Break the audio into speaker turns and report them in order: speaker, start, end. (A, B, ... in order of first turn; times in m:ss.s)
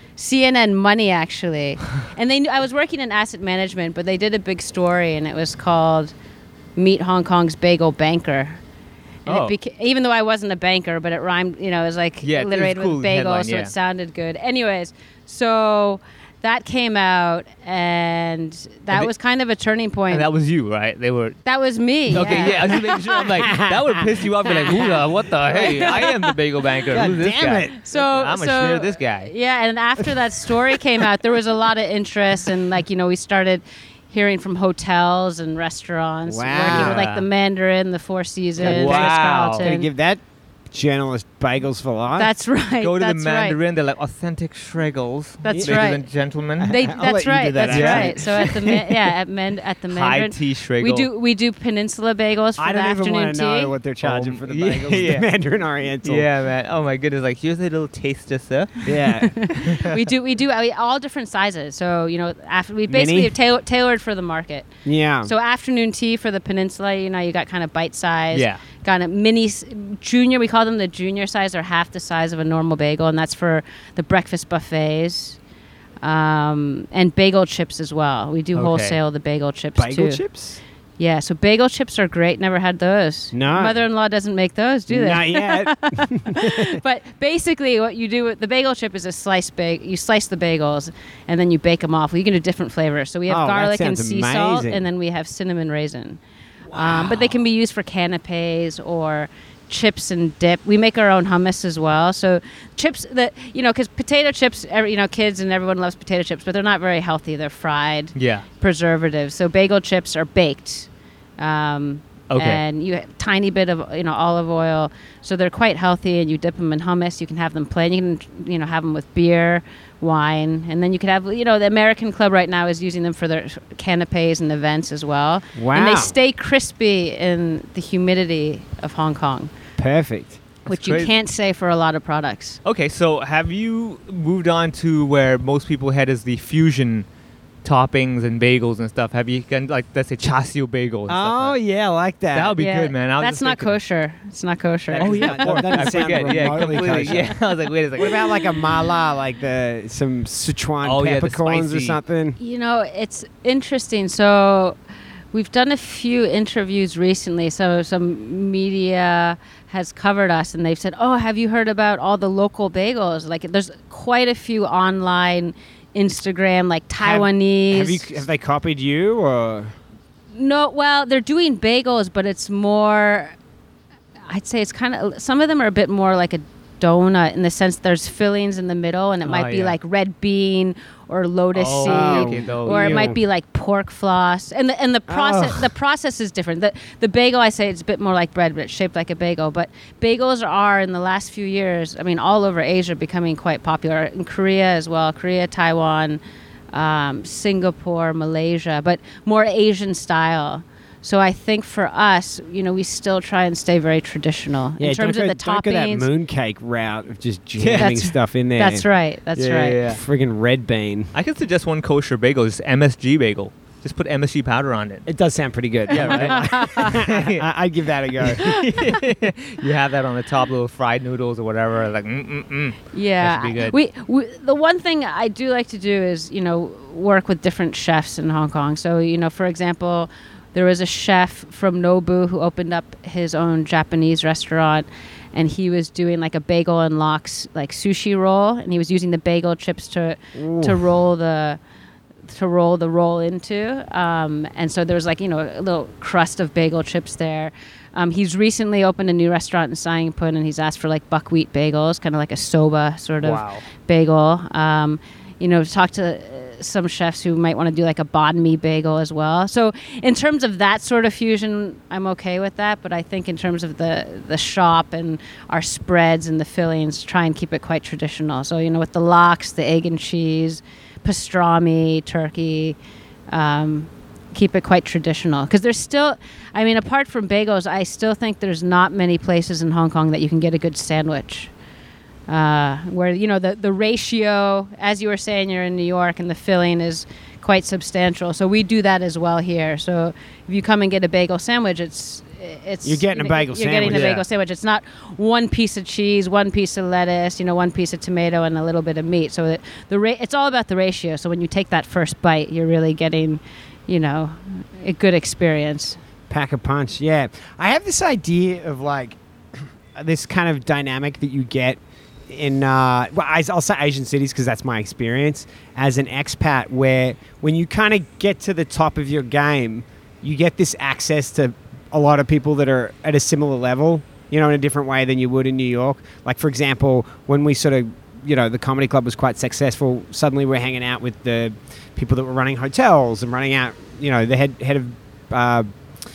0:00.2-0:06.1 A
0:06.8-0:08.6 A
0:09.3-0:20.3 A
0:09.3-0:09.6 B
0:12.2-0:13.7 B
0:20.1-0:21.4 B
0:21.4-0:23.3 A
0:22.1-0:29.3 B
0:22.3-0:26.0 C
0:24.5-0:24.9 A
0:25.5-0:26.3 A
0:26.9-0:27.8 C
0:27.8-0:39.9 A
0:36.3-0:37.1 C
0:36.6-0:37.2 B
0:38.6-0:42.3 C
0:38.6-0:39.8 B
0:42.2-0:43.6 A
0:42.8-0:46.7 B
0:45.4-0:46.0 A
0:45.5-0:45.9 C
0:46.6-0:48.7 C
0:46.7-0:53.7 A
0:47.7-0:48.5 B
0:49.9-0:51.1 B
0:52.6-0:56.3 C
0:54.0-0:55.3 B
0:56.0-0:58.9 B
0:58.8-0:59.4 C
0:59.2-1:04.7 A
0:59.6-1:00.0 B
1:02.9-1:03.3 C
1:04.8-1:05.3 C
1:05.2-1:15.4 A
1:08.3-1:08.6 B
1:16.0-1:20.2 A
1:18.6-1:19.0 B
1:19.8-1:20.6 C
1:21.0-1:36.2 A
1:23.3-1:23.8 C
1:24.9-1:26.8 C
1:33.3-1:34.8 C
1:36.7-2:09.5 A
1:36.9-1:37.3 B
1:48.2-1:48.4 B
1:52.3-1:52.6 B
2:05.6-2:06.2 C
2:09.8-2:10.4 C
2:10.7-2:11.1 B
2:10.7-2:12.6 A
2:12.6-2:17.1 B
2:17.6-2:21.6 B
2:21.1-2:22.6 C
2:22.3-2:23.8 B
2:22.6-2:27.1 A
2:24.9-2:28.2 B
2:25.0-2:27.4 C
2:28.0-2:32.4 C
2:30.8-2:32.0 B
2:32.4-2:34.8 A
2:35.3-2:48.2 A
2:47.0-2:49.8 C
2:50.3-2:53.4 A
2:54.3-3:26.1 A
2:59.2-2:59.8 B
3:01.5-3:03.2 B
3:01.8-3:03.2 C
3:05.1-3:05.7 C
3:24.8-3:28.8 C
3:27.6-3:28.0 B
3:27.8-3:29.8 A
3:29.4-3:30.0 B
3:29.8-3:31.1 C
3:31.1-3:35.1 B
3:35.1-3:38.6 C
3:35.9-3:37.4 B
3:36.0-3:36.9 A
3:38.2-3:43.8 B
3:42.9-4:01.6 A
4:00.4-4:00.8 C
4:02.3-4:32.8 A
4:13.2-4:13.6 B
4:33.3-4:41.5 A
4:42.3-5:06.0 A
4:52.8-4:54.2 C
4:53.9-4:54.2 B
5:06.3-5:35.7 C